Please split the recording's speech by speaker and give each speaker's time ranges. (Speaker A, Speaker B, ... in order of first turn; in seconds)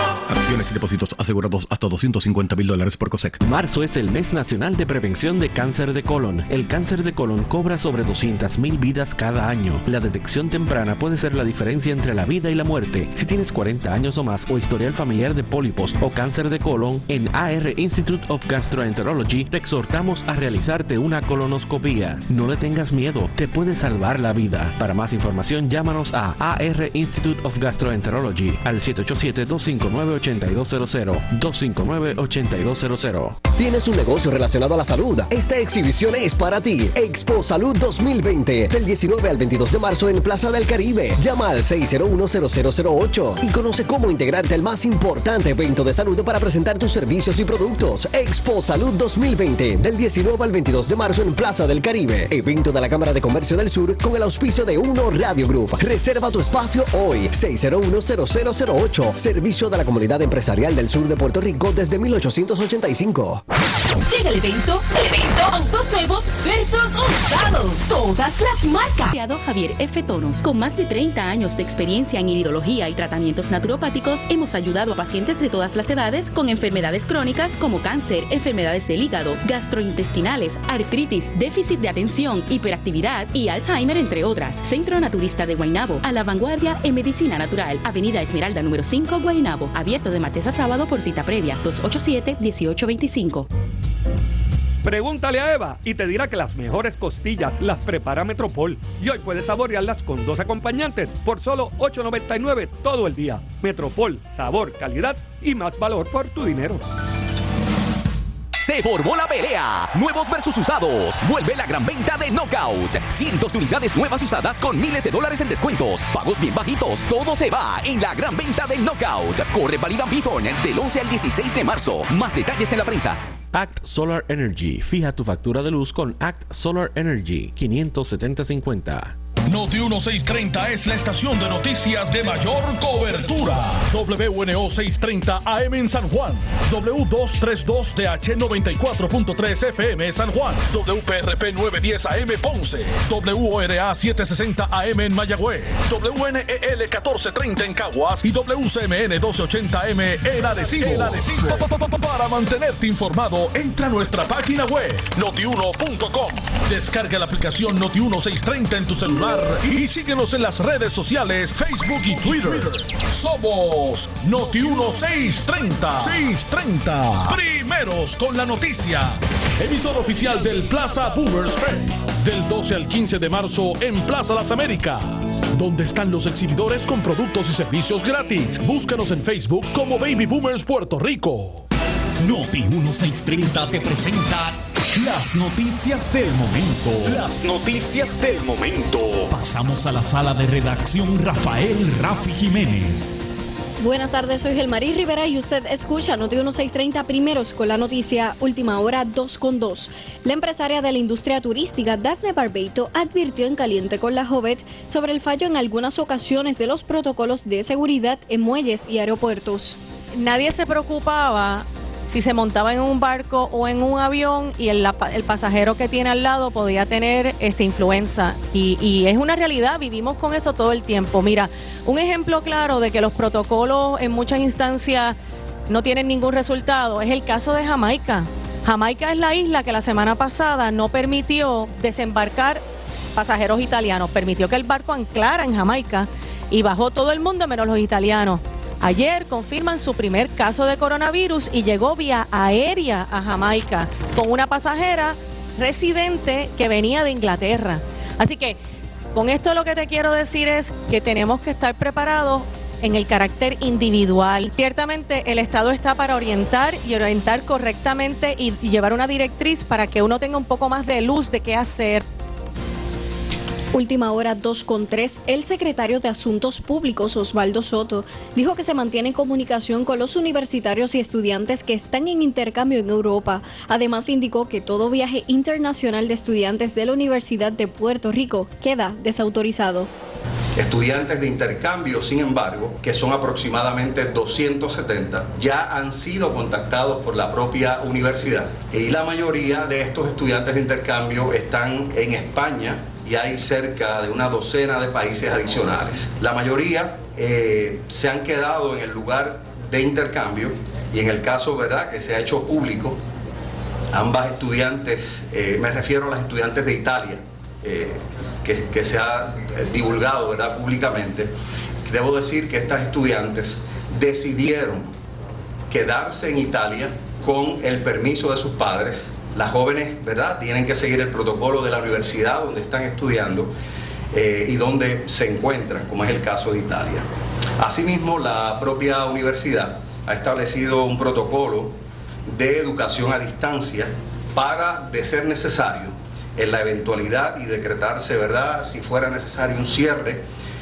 Speaker A: 0.3-3.4
Speaker B: 3.4-33.4, 123.5-129.2
Speaker C: 33.5-63.4
Speaker D: 64.0-69.1
Speaker E: 69.1-93.5
Speaker F: 94.8-106.8
Speaker G: 108.6-123.2
Speaker H: 129.5-181.7
Speaker I: 182.2-187.3, 189.3-193.2
Speaker J: 193.8-209.8, 263.7-279.9
Speaker K: 210.2-225.2, 225.7-248.6, 249.1-262.0
Speaker L: 280.6-303.0, 303.9-311.3, 311.8-314.9, 315.7-323.5, 324.1-327.1, 327.6-340.2